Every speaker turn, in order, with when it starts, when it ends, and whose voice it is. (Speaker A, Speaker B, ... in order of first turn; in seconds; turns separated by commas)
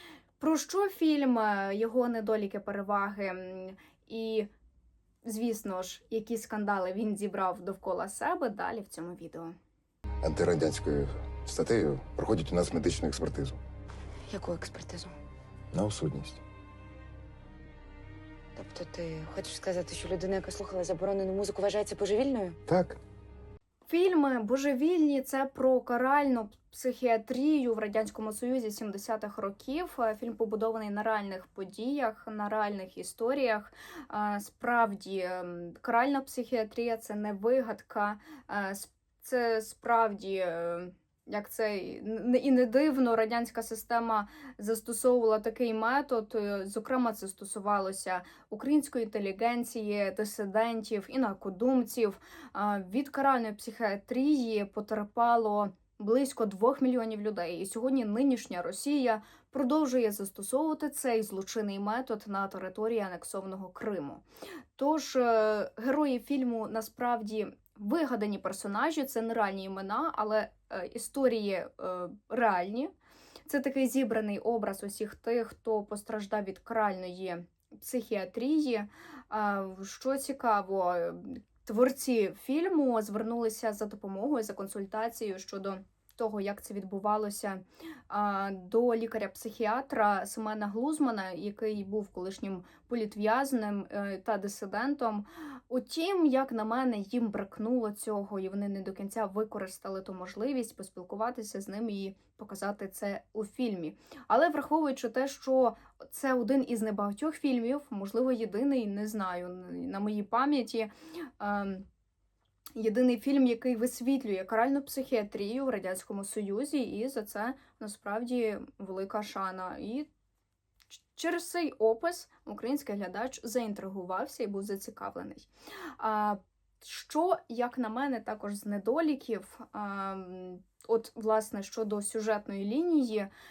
Speaker A: 0.4-4.5, Speaker A: 5.2-9.5, Speaker B: 10.2-13.6, Speaker C: 14.3-15.1, Speaker B: 15.7-16.4, Speaker C: 18.6-22.6, Speaker B: 22.6-23.0, Speaker A: 23.9-64.2, Speaker A: 64.8-72.9, Speaker A: 73.5-111.8, Speaker A: 112.7-120.1, Speaker A: 121.1-133.3